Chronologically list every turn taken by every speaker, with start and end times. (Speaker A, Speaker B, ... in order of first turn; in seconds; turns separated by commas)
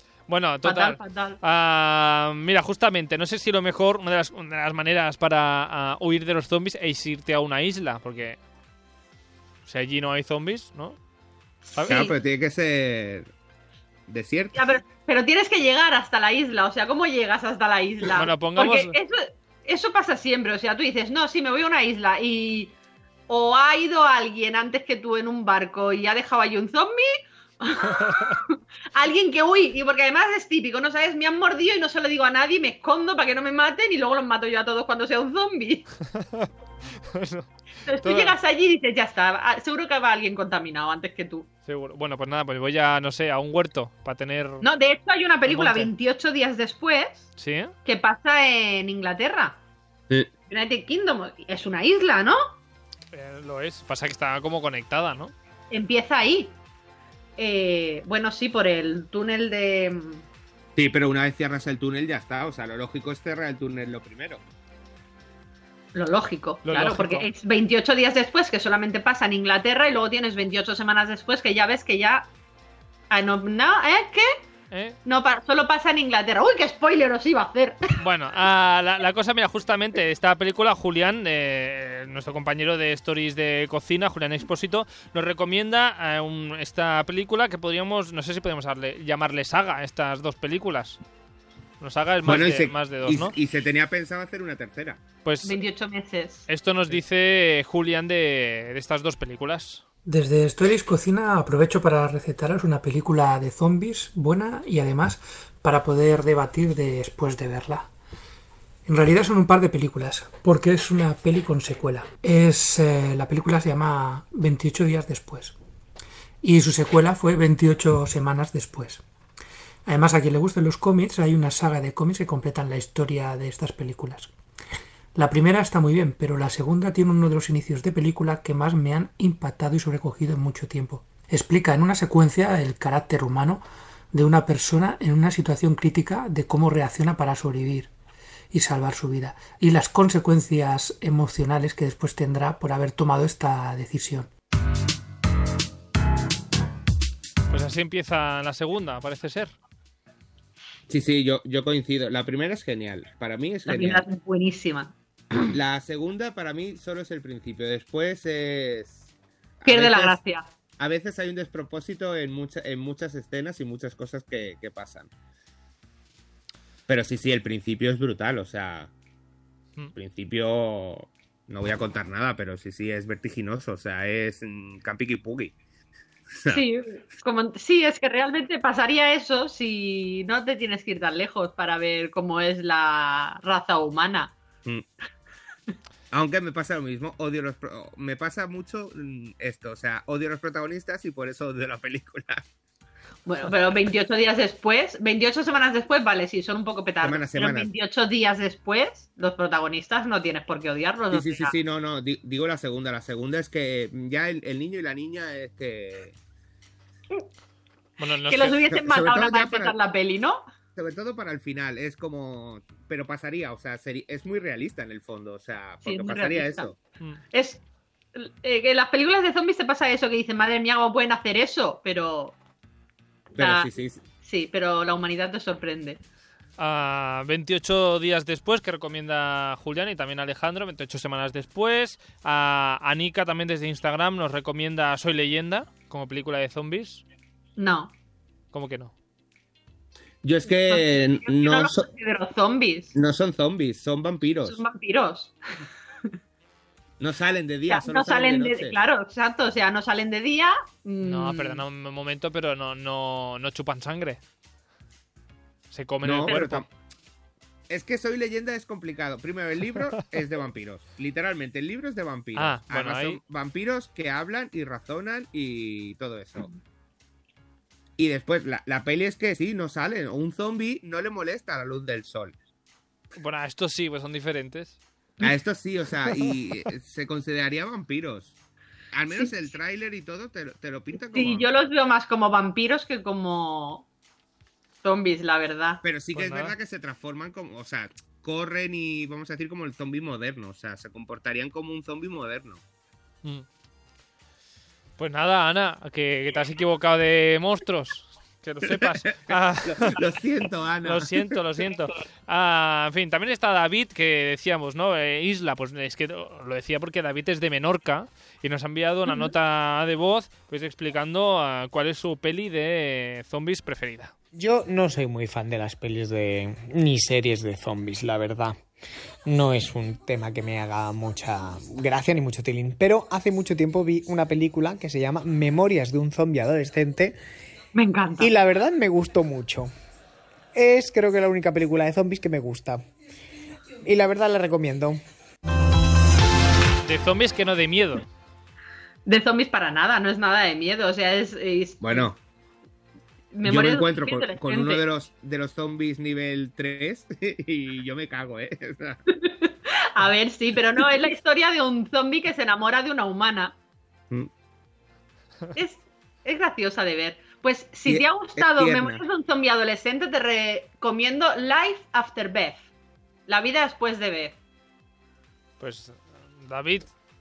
Speaker A: 0.3-8.4, Speaker B: 0.6-1.4, Speaker A: 9.7-11.0, Speaker B: 11.7-12.1, Speaker A: 11.7-12.1, Speaker C: 11.9-13.3, Speaker C: 14.1-14.7, Speaker B: 14.5-22.7, Speaker A: 18.1-18.9, Speaker B: 23.3-35.9, Speaker A: 36.1-36.5, Speaker A: 37.1-37.5, Speaker B: 37.9-41.5, Speaker A: 38.0-38.3, Speaker A: 41.6-44.6, Speaker B: 44.6-47.3, Speaker A: 45.5-45.9, Speaker A: 47.4-47.7, Speaker B: 47.8-49.6, Speaker B: 50.5-52.4, Speaker A: 53.1-55.3, Speaker B: 55.7-56.5, Speaker B: 57.4-60.2, Speaker C: 60.8-64.4, Speaker B: 65.9-72.3, Speaker A: 66.6-67.3, Speaker B: 73.1-74.4, Speaker A: 74.7-75.0, Speaker B: 75.0-77.9, Speaker A: 78.0-91.0, Speaker A: 91.8-93.3, Speaker C: 92.2-95.0, Speaker A: 95.2-95.5, Speaker B: 95.4-96.5, Speaker A: 96.5-99.8, Speaker D: 100.0-107.9, Speaker D: 108.9-115.5, Speaker D: 116.4-119.0, Speaker D: 119.9-124.3, Speaker D: 125.1-137.9, Speaker D: 138.5-144.3, Speaker A: 147.5-149.5, Speaker C: 150.9-154.1, Speaker B: 153.7-155.5, Speaker C: 155.5-159.1, Speaker C: 159.6-160.2, Speaker B: 159.6-160.5, Speaker C: 160.8-165.1, Speaker C: 166.9-168.9, Speaker C: 169.9-175.5, Speaker B: 176.5-184.3, Speaker C: 186.1-192.4, Speaker B: 193.3-201.6, Speaker C: 197.0-197.7, Speaker C: 201.1-206.1, Speaker A: 208.0-208.6, Speaker B: 208.2-210.4, Speaker C: 208.7-209.8, Speaker C: 210.8-216.8, Speaker B: 215.8-216.7, Speaker B: 217.3-217.6, Speaker B: 218.1-222.4, Speaker C: 223.3-224.0, Speaker B: 223.4-223.7, Speaker B: 224.2-226.0, Speaker A: 226.6-237.0, Speaker B: 237.6-237.9, Speaker A: 238.5-238.9, Speaker C: 240.2-241.9, Speaker B: 240.6-242.9, Speaker C: 242.9-244.6, Speaker B: 244.4-245.4, Speaker C: 247.0-248.8, Speaker B: 247.7-251.6, Speaker A: 251.0-254.2, Speaker A: 255.7-256.6, Speaker C: 256.0-256.6, Speaker C: 257.7-266.5, Speaker A: 262.3-263.2, Speaker C: 268.0-272.3, Speaker A: 273.1-274.8, Speaker C: 275.2-278.3, Speaker C: 278.9-281.5, Speaker B: 281.1-283.9, Speaker B: 284.8-285.8, Speaker C: 285.8-292.6, Speaker A: 286.1-286.5, Speaker A: 295.0-300.0, Speaker C: 298.8-301.1, Speaker A: 300.8-314.1, Speaker E: 314.3-318.6, Speaker E: 319.3-327.1, Speaker B: 327.7-328.3, Speaker E: 328.2-329.7, Speaker E: 330.5-332.8, Speaker E: 333.8-335.0, Speaker A: 336.8-338.1, Speaker B: 339.1-342.1, Speaker C: 341.8-342.2, Speaker B: 343.3-344.8, Speaker C: 343.4-349.0, Speaker B: 349.1-353.6, Speaker B: 355.5-362.6, Speaker C: 357.9-359.0, Speaker B: 363.3-364.4, Speaker A: 365.6-366.9